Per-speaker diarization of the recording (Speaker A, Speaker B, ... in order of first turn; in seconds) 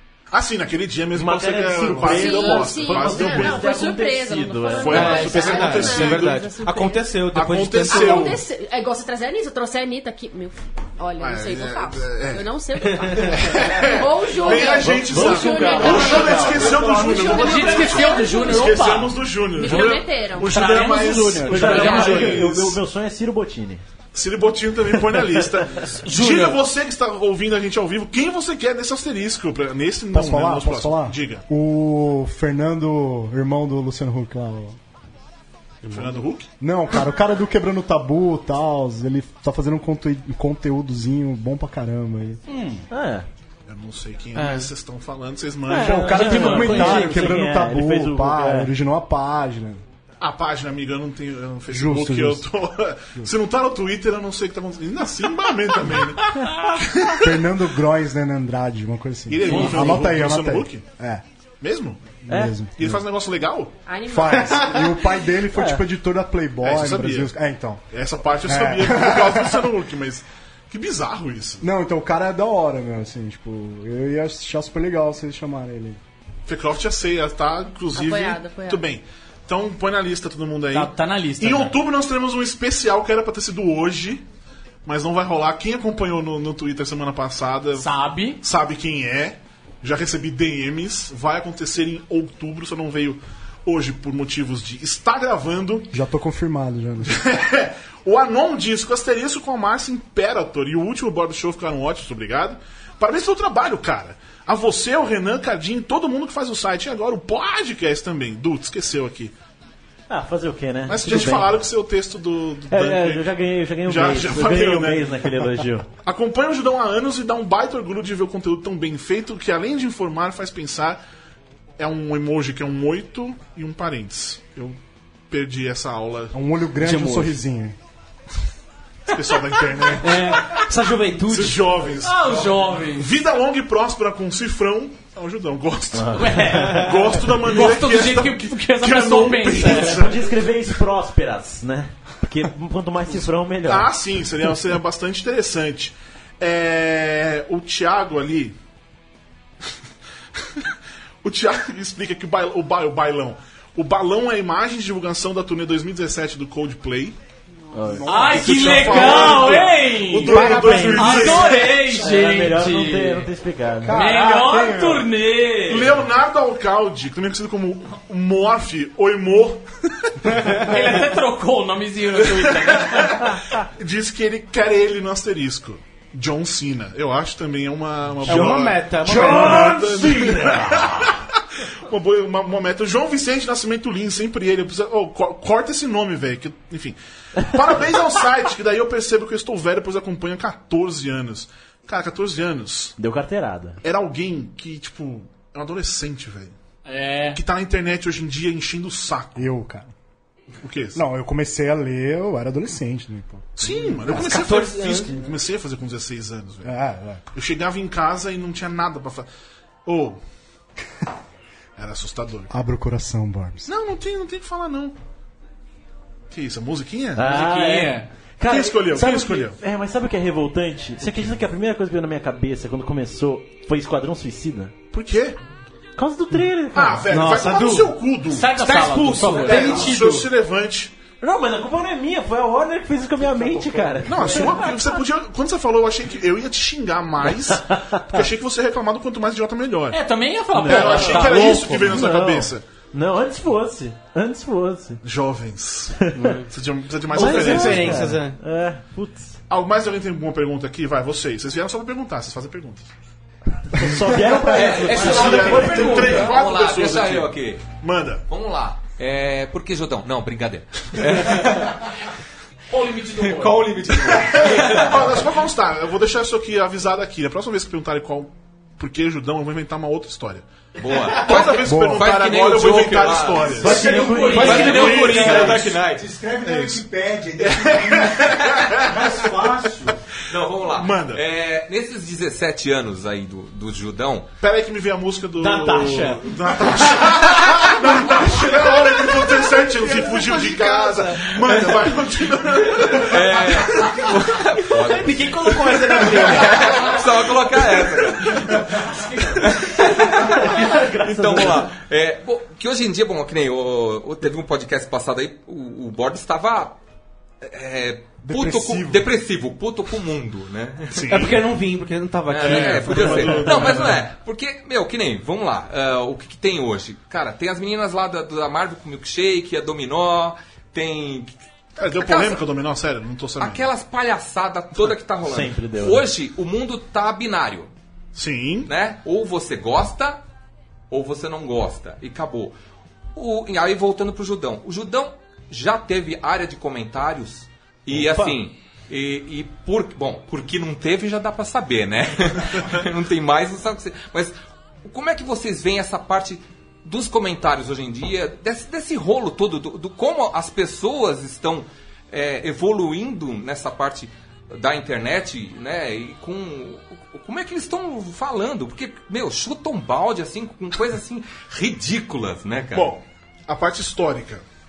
Speaker A: 0.3-3.7, 4.8-6.4, 7.3-8.4, 11.2-12.5, 13.1-22.8, 24.1-31.4, 35.9-36.5, 43.7-46.9, 50.2-57.4, 59.3-60.8, 61.6-63.8, 66.6-67.3, 67.9-71.7, 76.5-84.2, 84.8-87.9, 88.4-96.0, 97.0-109.3, 110.9-115.3, 116.0-121.0, 121.8-124.8, 125.3-126.3, 129.1-130.6, 131.3-140.4, 143.7-148.6, 150.4-150.7, 151.2-157.2, 158.1-161.9, 165.7-170.4, 172.3-193.0, 193.8-196.5, 197.3-199.5, 200.6-201.0, 203.6-206.7, 207.3-209.3, 209.8-210.2, 211.8-212.5, 213.7-214.9, 216.3-217.2, 218.4-219.6, 224.9-225.4, 226.7-230.9, 234.1-240.0, 240.6-242.6, 245.0-248.1, 249.5-252.9, 254.6-258.2, 264.3-270.4, 271.2-273.9, 274.7-275.6, 276.4-276.8, 277.4-279.2, 280.7-281.2, 284.4-294.2, 295.7-296.3, 310.9-311.4, 312.4-314.1, 321.8-323.7, 328.1-328.7, 362.7-364.4
Speaker B: 1.1-5.8, 14.7-17.4, 21.5-23.8, 25.0-25.8, 42.9-43.2, 45.7-48.7, 62.3-62.5, 65.5-65.8, 110.1-111.6, 112.7-115.9, 135.9-136.8, 139.8-143.9, 157.7-159.3, 160.3-161.2, 162.0-164.0, 193.0-193.8, 217.1-224.7, 226.0-227.1, 231.2-234.6, 237.7-238.0, 240.6-245.0, 246.1-246.4, 247.1-249.4, 253.7-255.9, 273.6-275.5, 300.2-301.7, 325.2-326.1
Speaker C: 2.0-7.1, 7.9-18.7, 19.5-20.6, 63.9-64.9, 77.9-78.8
Speaker D: 4.9-8.3, 44.3-44.7, 126.8-127.4, 130.0-131.6, 160.5-161.0, 170.3-170.7, 178.2-180.6, 204.1-205.2, 227.1-227.9, 228.6-230.3, 233.2-234.1, 240.7-242.0, 246.1-246.5, 247.1-248.4, 263.4-264.9, 273.7-275.6, 285.4-291.9, 293.0-293.5, 294.7-297.1, 311.1-313.7
Speaker E: 17.0-22.5, 26.0-26.6, 42.5-42.8, 45.9-47.4, 59.5-60.0, 80.7-81.8, 87.8-88.4, 129.1-130.7, 132.0-133.1, 136.1-140.0, 158.1-163.3, 163.9-166.0, 170.6-173.4, 196.8-197.4, 217.2-218.1, 228.3-229.9, 239.9-241.7, 262.7-263.9, 273.7-275.5
Speaker F: 30.1-34.8, 36.6-42.4, 45.7-49.8, 51.7-52.5, 57.1-61.2, 62.3-63.0, 64.0-67.8, 68.4-69.8, 71.6-76.0, 95.9-97.2, 126.3-127.8, 157.8-159.6, 160.3-161.9, 163.8-165.1, 199.3-199.9, 200.9-204.0, 206.6-207.2, 212.5-213.7, 271.6-272.2, 308.2-309.0
Speaker G: 254.3-257.7, 258.3-261.9, 263.4-265.0, 270.8-276.1, 280.3-284.3, 292.8-306.8, 307.4-311.3, 312.2-321.3, 321.9-322.4, 323.4-327.7, 328.6-330.2, 330.9-332.5, 333.1-362.9
Speaker H: 275.3-279.9